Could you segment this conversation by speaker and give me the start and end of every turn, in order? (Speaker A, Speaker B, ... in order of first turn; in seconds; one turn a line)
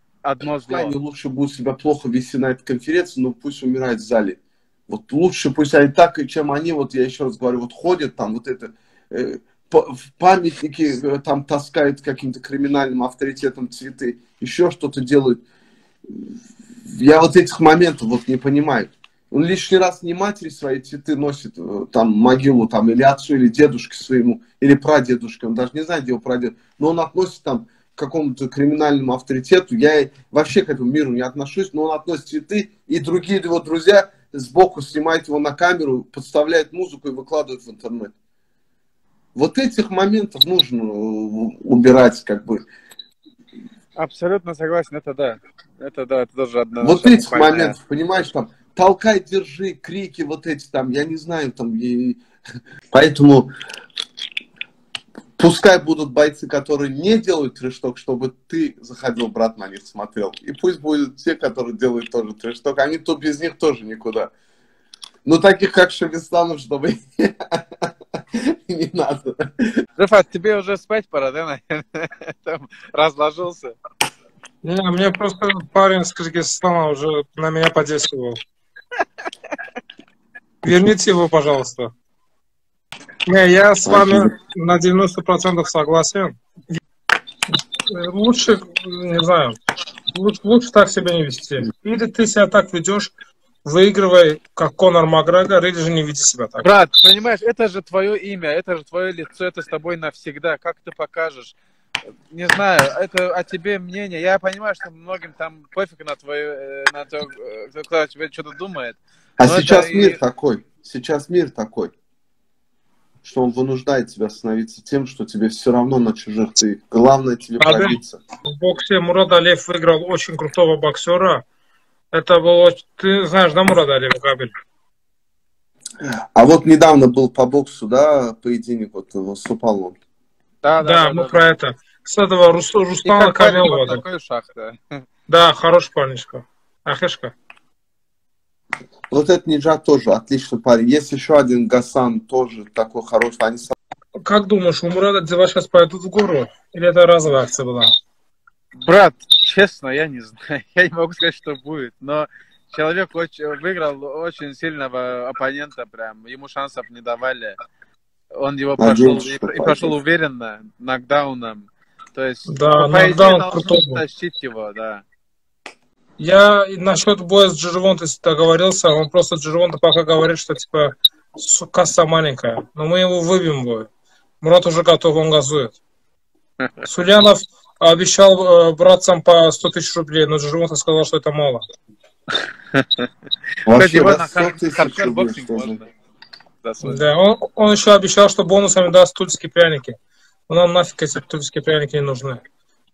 Speaker A: 0.2-0.9
Speaker B: 0.7-15.4
Speaker B: 16.9-38.1
Speaker B: 39.4-42.6
Speaker A: 44.0-47.8
Speaker B: 46.8-52.2
Speaker B: 52.9-53.5
Speaker B: 55.4-64.3
Speaker B: 65.2-67.9
Speaker B: 68.7-69.8
Speaker A: 70.0-73.8
Speaker C: 74.6-78.4
Speaker C: 80.6-81.9
Speaker C: 83.3-86.4
Speaker B: 83.8-84.3
Speaker C: 87.9-89.5
Speaker C: 90.1-93.1
Speaker C: 93.6-96.7
Speaker A: 96.6-101.6
Speaker A: 102.3-110.2
Speaker B: 109.4-111.9
Speaker B: 113.2-118.2
Speaker C: 117.6-121.4
Speaker C: 122.1-124.5
Speaker B: 126.0-130.0
Speaker A: 130.6-131.5
Speaker C: 130.8-134.0
Speaker A: 133.1-134.8
Speaker C: 135.3-137.3
Speaker B: 139.1-143.7
Speaker C: 144.2-147.9
Speaker A: 148.8-157.6
Speaker A: 158.4-165.0
Speaker B: 158.8-159.9
Speaker C: 162.5-164.0
Speaker C: 166.2-173.9
Speaker C: 174.4-175.8
Speaker C: 176.8-181.6
Speaker A: 182.7-183.0
Speaker B: 183.7-185.8
Speaker A: 183.7-185.9
Speaker A: 186.6-187.0
Speaker C: 186.8-190.0
Speaker C: 190.5-192.4